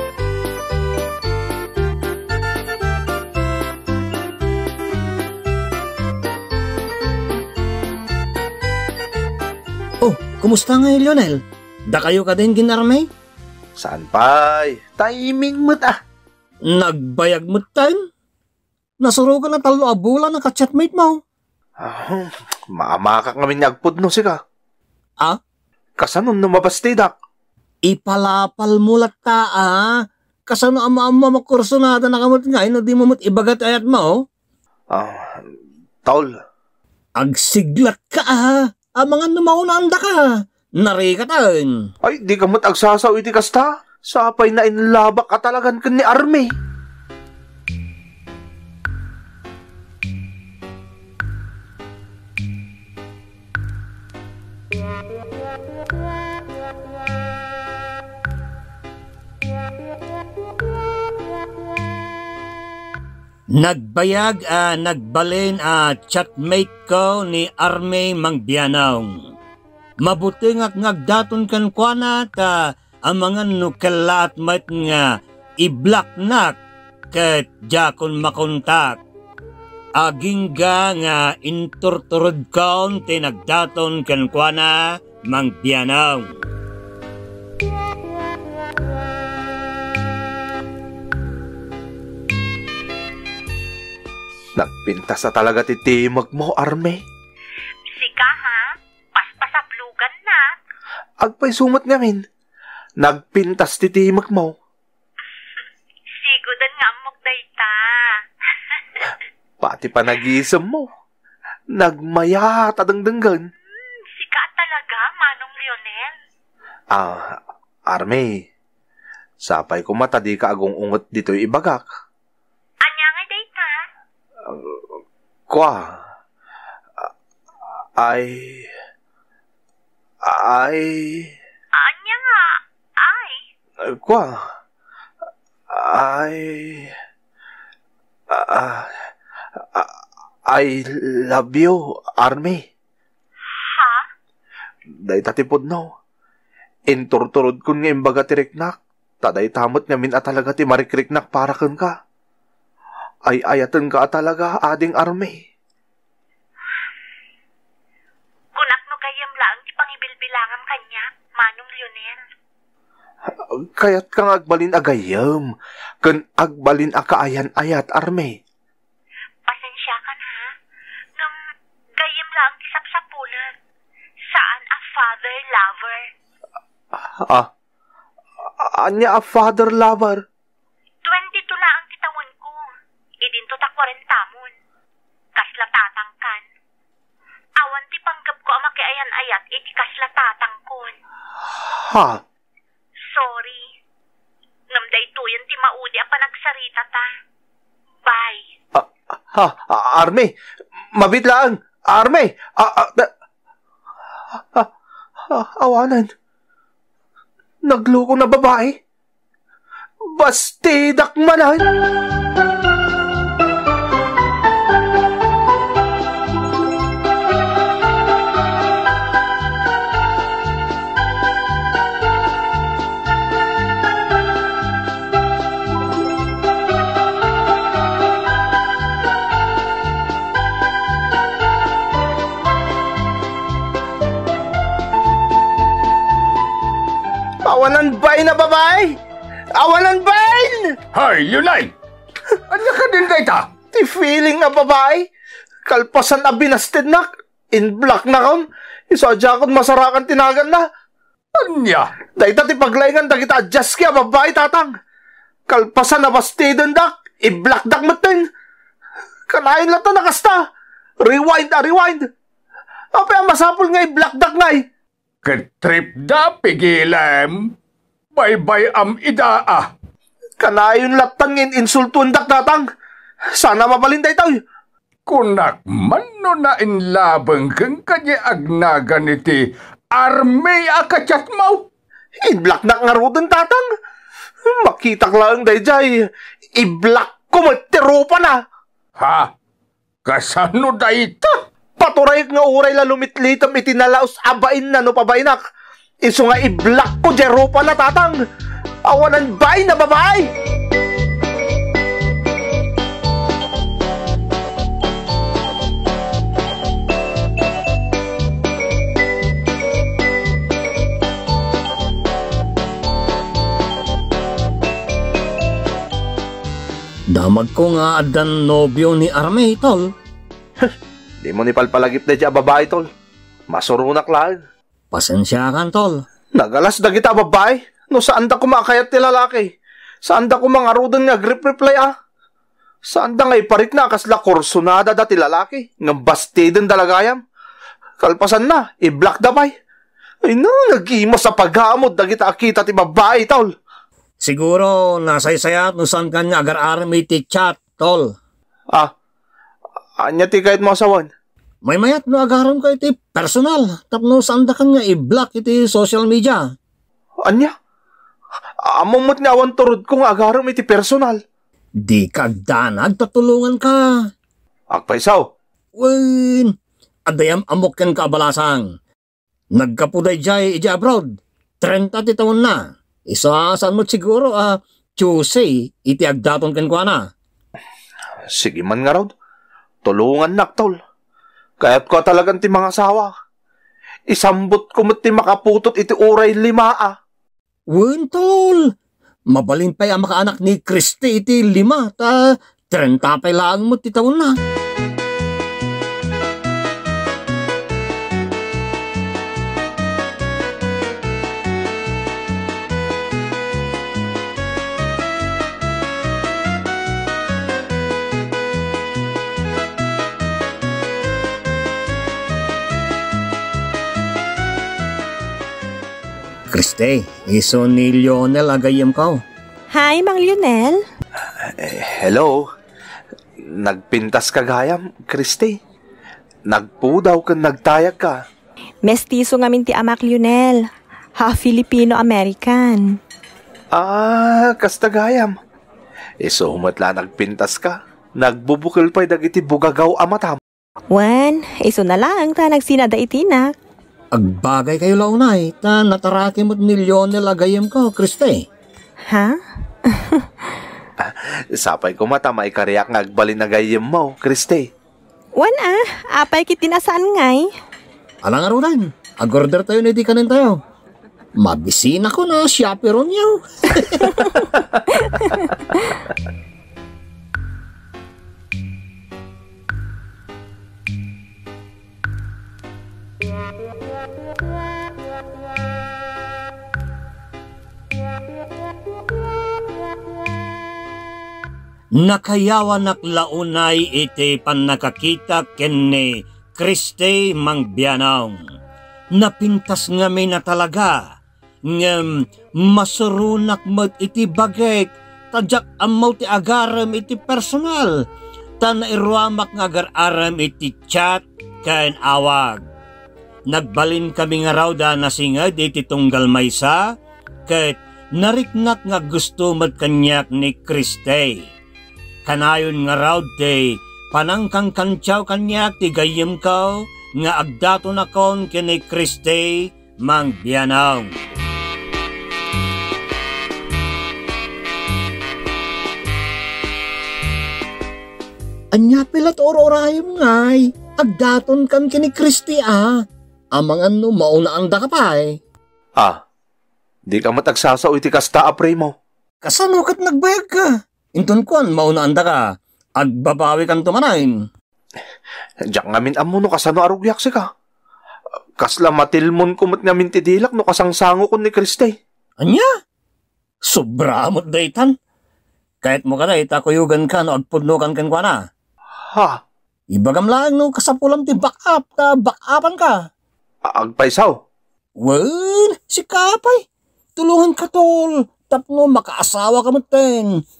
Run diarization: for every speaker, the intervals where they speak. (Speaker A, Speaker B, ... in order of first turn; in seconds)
Speaker A: 10.0-13.1, 16.7-18.0, 19.0-21.2, 27.9-34.1, 37.2-40.2, 40.8-41.9, 63.6-69.1, 70.0-72.5, 73.1-75.1, 75.6-76.6, 77.1-79.0, 80.0-86.3, 317.1-319.9, 324.9-326.0, 344.2-348.1, 351.6-356.4, 361.9-363.8, 365.8-366.5, 367.1-368.7, 369.6-371.1, 371.6-372.6, 373.1-377.0, 387.8-388.7, 389.3-392.1, 392.7-394.4, 416.5-419.2, 444.1-448.4, 458.2-460.6, 461.4-464.3, 482.0-488.4, 489.2-491.0, 491.7-498.0, 498.6-502.6, 503.5-506.8, 507.5-511.4, 512.2-521.1, 528.7-532.9, 533.6-535.4, 539.4-542.4, 543.0-544.3, 553.7-554.9, 555.8-558.4, 559.9-563.0, 565.0-566.6, 567.2-570.3
Speaker B: 13.8-16.0, 21.8-24.4, 26.0-27.1, 34.9-35.4, 36.0-36.4, 42.0-46.5, 94.6-97.0, 101.2-102.2, 103.0-104.5, 109.6-110.9, 111.7-113.5, 116.9-118.4, 119.4-121.9, 124.5-124.8, 125.5-126.0, 128.0-128.7, 130.2-131.3, 133.8-134.4, 135.7-136.9, 138.3-139.0, 139.6-139.9, 140.5-142.6, 145.0-145.9, 146.9-151.9, 153.3-155.4, 163.2-168.4, 176.9-177.5, 178.6-180.2, 191.5-192.2, 198.7-200.3, 200.9-203.1, 204.3-206.1, 207.7-208.8, 210.1-211.7, 237.4-238.9, 239.5-240.8, 243.7-245.0, 245.7-250.6, 252.2-254.7, 255.5-258.2, 259.3-260.4, 261.0-262.1, 262.9-264.6, 270.4-272.6, 273.3-274.4, 282.2-283.6, 284.4-288.4, 291.8-295.4, 296.1-298.2, 298.9-300.3, 320.6-322.9, 323.5-324.4, 326.4-329.5, 330.1-331.9, 332.9-337.2, 338.0-339.5, 340.2-343.5, 350.0-351.1, 357.3-357.5, 358.6-361.2, 364.7-365.2, 378.3-379.1, 379.8-380.8, 381.6-383.1, 384.1-386.9, 421.4-422.4, 423.4-425.6, 426.5-428.2, 433.7-435.3, 436.2-440.4, 451.0-454.7, 537.1-538.9, 545.6-547.5, 548.6-552.0, 559.1-559.4, 563.6-564.4
Speaker C: 97.9-100.6, 106.1-109.1, 114.1-116.1, 122.8-123.7, 131.8-133.4, 143.6-144.0, 158.5-162.2, 169.5-170.4, 172.0-173.5, 174.3-176.1, 181.0-182.6, 183.2-184.5, 185.3-186.4, 187.6-190.9, 193.1-193.6, 194.7-197.1, 198.1-198.4
Speaker D: 240.9-241.7, 242.5-243.4, 251.3-251.9, 265.2-267.5, 268.1-269.7, 275.1-279.4, 279.9-281.6, 289.0-289.3, 290.0-291.3
Speaker E: 419.7-420.8, 428.8-430.6, 431.2-432.9, 440.9-443.5, 449.1-450.5, 455.4-457.5